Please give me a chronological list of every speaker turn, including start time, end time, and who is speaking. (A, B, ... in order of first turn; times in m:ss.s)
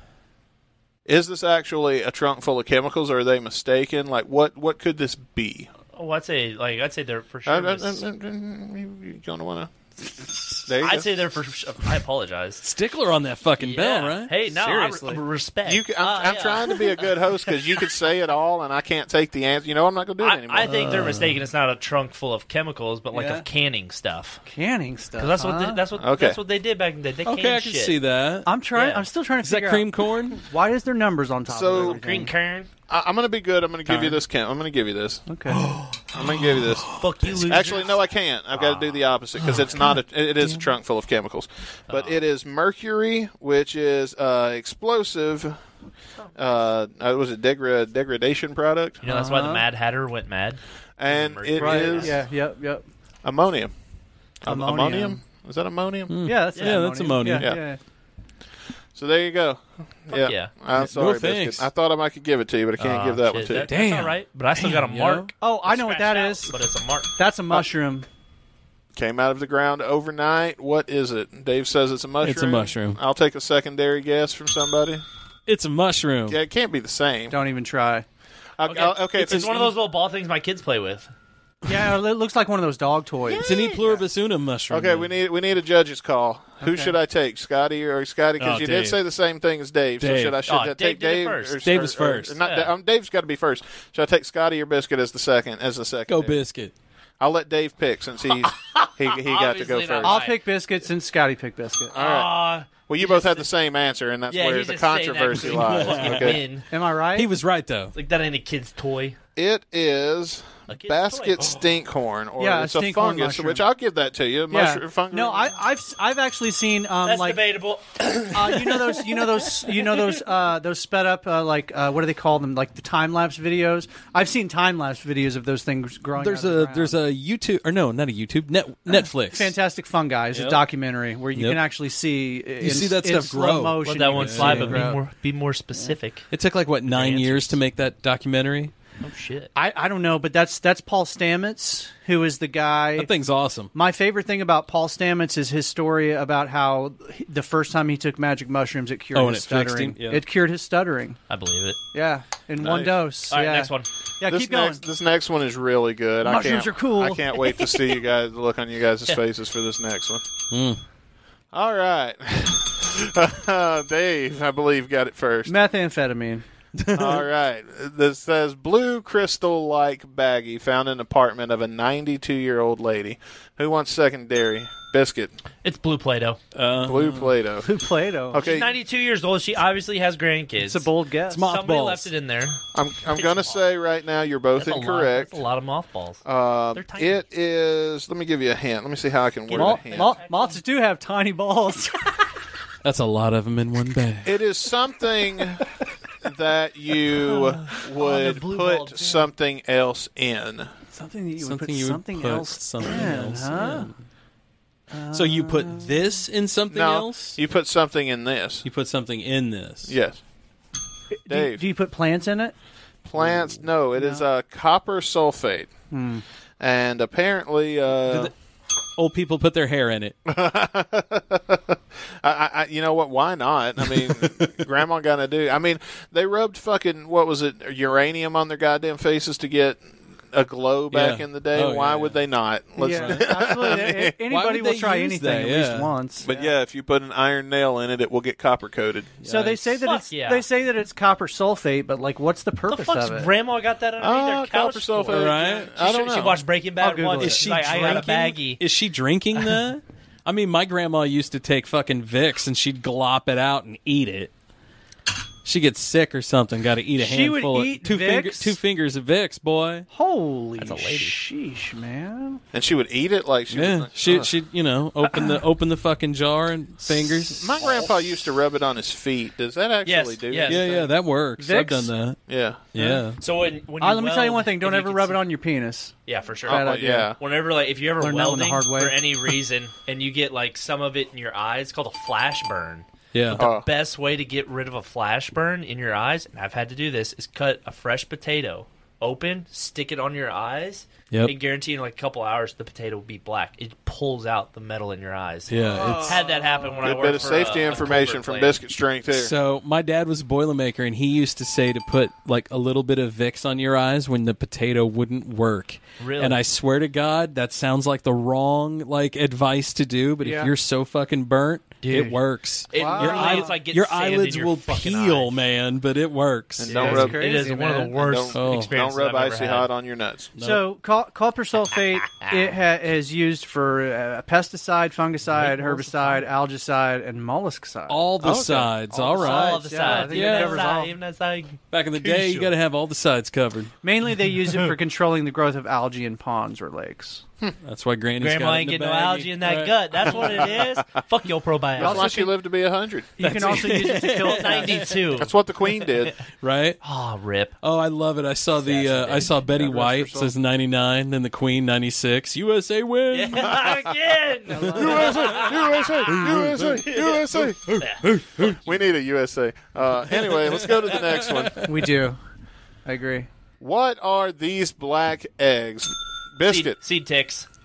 0:01.1-0:05.7 A
0:05.9-0:08.0 B
0:07.5-0:09.7 A
0:10.7-0:11.1 A
0:10.8-0:12.6 B
0:12.6-0:15.1 C
0:13.6-0:17.1 B
0:14.6-0:15.2 D
0:15.6-0:21.0 A
0:20.2-0:24.4 B
0:20.7-0:21.3 C
0:23.1-0:23.4 D
0:24.5-0:25.8 D
0:25.2-0:28.0 B
0:26.0-0:26.4 A
0:27.2-0:28.5 C
0:28.5-0:32.3 D
0:28.8-0:29.1 B
0:29.4-0:30.4 C
0:31.5-0:32.0 A
0:31.7-0:32.7 B
0:32.9-0:35.2 A
0:33.9-0:34.2 C
0:35.3-0:35.6 D
0:35.5-0:37.4 C
0:36.1-0:45.6 A
0:37.0-0:38.0 B
0:38.5-0:39.0 B
0:41.9-0:42.2 B
0:46.4-0:49.0 A
0:49.0-0:52.2 B
0:49.1-0:49.7 D
0:51.0-0:52.2 A
0:51.6-0:52.9 D
0:53.2-0:53.7 A
0:54.4-0:56.2 A
0:54.5-0:55.2 D
0:56.1-0:57.6 C
0:56.2-0:57.8 D
0:56.6-0:56.8 B
0:59.0-1:03.7 A
1:00.1-1:00.5 B
1:00.7-1:01.7 C
1:02.8-1:07.1 B
1:03.6-1:05.3 C
1:05.4-1:06.6 D
1:07.2-1:08.1 D
1:08.9-1:15.0 A
1:12.2-1:13.0 C
1:15.5-1:16.4 C
1:16.3-1:17.4 A
1:17.3-1:18.0 D
1:18.6-1:19.7 A
1:18.7-1:21.1 B
1:21.7-1:23.5 D
1:23.3-1:24.0 B
1:23.4-1:25.1 C
1:24.7-1:36.4 A
1:26.6-1:27.0 D
1:28.4-1:29.0 C
1:30.0-1:30.4 C
1:30.5-1:31.7 B
1:31.6-1:32.4 C
1:32.4-1:32.7 B
1:36.1-1:36.7 C
1:37.2-1:40.2 A
1:38.5-1:40.4 B
1:40.0-1:41.9 D
1:41.9-1:46.4 A
1:41.9-1:43.5 B
1:44.3-1:46.6 B
1:45.4-1:46.4 C
1:46.7-1:47.3 D
1:47.1-1:47.9 C
1:47.9-1:49.2 B
1:49.4-1:55.6 A
1:50.7-1:51.6 B
1:52.4-1:53.7 D
1:54.5-1:57.5 D
1:57.0-2:00.1 B
1:58.3-2:07.0 D
2:06.2-2:09.6 C
2:08.9-2:15.0 D
2:10.3-2:10.6 C
2:11.4-2:11.6 C
2:12.6-2:14.9 C
2:13.8-2:16.2 B
2:16.3-2:18.7 C
2:16.9-2:17.6 B
2:19.0-2:19.5 B
2:19.6-2:23.1 D
2:23.0-2:23.7 C
2:23.7-2:31.2 D
2:29.1-2:30.2 C
2:31.3-2:31.8 B
2:31.9-2:34.8 D
2:32.6-2:33.0 A
2:33.3-2:33.9 B
2:34.2-2:40.2 A
2:36.2-2:37.5 D
2:40.5-2:40.8 C
2:41.5-2:45.5 A
2:45.5-2:46.4 D
2:46.8-2:47.3 C
2:46.9-2:55.3 A
2:55.6-2:56.4 B
2:56.6-2:57.3 C
2:56.8-2:57.7 A
2:57.6-2:58.4 D
2:58.3-2:58.7 A
2:58.4-3:03.6 B
3:00.6-3:01.4 D
3:01.3-3:02.1 C
3:02.7-3:05.4 A
3:04.6-3:07.3 B
3:06.2-3:10.2 A
3:09.5-3:10.6 B
3:09.5-3:12.3 D
3:12.8-3:14.4 C
3:14.2-3:15.7 A
3:16.2-3:20.7 A
3:18.1-3:19.1 D
3:18.2-3:19.0 B
3:20.9-3:23.9 D
3:21.4-3:24.0 C
3:24.9-3:26.0 D
3:25.1-3:27.4 C
3:26.7-3:28.6 A
3:28.6-3:30.0 C
3:29.9-3:30.2 A
3:31.1-3:32.5 D
3:31.3-3:31.7 A
3:33.0-3:35.7 A
3:34.0-3:34.2 D
3:35.9-3:36.2 D
3:36.6-3:38.3 A
3:38.0-3:38.3 C
3:39.0-3:40.2 C
3:40.3-3:54.2 A
3:44.1-3:44.5 C
3:50.9-3:52.2 C
3:52.8-3:56.5 D
3:52.9-3:53.3 C
3:54.3-3:55.9 C
3:56.2-3:59.2 A
3:59.2-3:59.8 C
3:59.2-4:03.3 D
3:59.8-4:00.4 B
4:02.7-4:08.6 B
4:04.0-4:06.4 A
4:05.1-4:05.7 C
4:06.8-4:07.5 D
4:07.2-4:14.3 C
4:15.4-4:19.9 C
4:17.0-4:18.6 D
4:19.9-4:22.4 D
4:20.6-4:21.2 B
4:22.5-4:24.3 A
4:23.5-4:27.5 C
4:27.3-4:30.9 A
4:27.6-4:28.0 B
4:29.9-4:30.8 B
4:30.5-4:32.2 C
4:31.4-4:31.9 D
4:32.3-4:32.6 A
4:32.7-4:33.2 C
4:32.8-4:33.0 D
4:33.2-4:35.2 B
4:33.8-4:35.9 D
4:36.1-4:58.6 B
4:36.4-4:37.2 A
4:36.5-4:37.1 D
4:38.0-4:39.0 D
4:43.1-4:43.4 C
4:43.4-4:43.7 A
4:55.5-4:56.2 C
4:55.7-4:57.7 D
4:56.8-4:59.3 A
4:59.1-5:17.1 C
5:06.0-5:06.4 B
5:10.2-5:10.5 D
5:11.8-5:12.2 B
5:12.7-5:15.4 B
5:12.7-5:13.6 D
5:16.6-5:17.4 A
5:16.6-5:19.7 B
5:16.7-5:17.9 D
5:17.9-5:20.3 A
5:18.3-5:18.7 C
5:20.4-5:20.6 C
5:20.4-5:28.1 D
5:22.2-5:22.5 B
5:25.4-5:26.2 B
5:27.9-5:30.6 C
5:28.2-5:29.4 A
5:29.1-5:32.5 B
5:29.2-5:31.0 D
5:31.7-5:33.7 C
5:33.8-5:37.2 D
5:37.6-5:40.5 C
5:38.2-5:42.1 B
5:40.6-5:40.8 A
5:41.8-5:43.5 A
5:41.8-5:42.3 D
5:43.2-5:44.9 D
5:43.2-5:45.1 C
5:44.3-5:46.1 B
5:45.2-5:46.2 A
5:46.4-5:46.8 C
5:46.8-5:47.5 B
5:47.6-5:53.7 C
5:48.6-5:49.4 B
5:49.5-5:50.3 D
5:53.1-5:56.2 B
5:53.5-5:53.9 A
5:54.5-5:55.5 D
5:54.8-5:57.8 A
5:56.0-5:56.8 C
5:56.9-5:58.0 B
5:57.5-5:58.6 C
5:58.6-6:01.7 A
6:00.1-6:01.7 C
6:01.6-6:02.2 D
6:02.9-6:03.3 D
6:03.6-6:06.8 A
6:06.4-6:07.5 B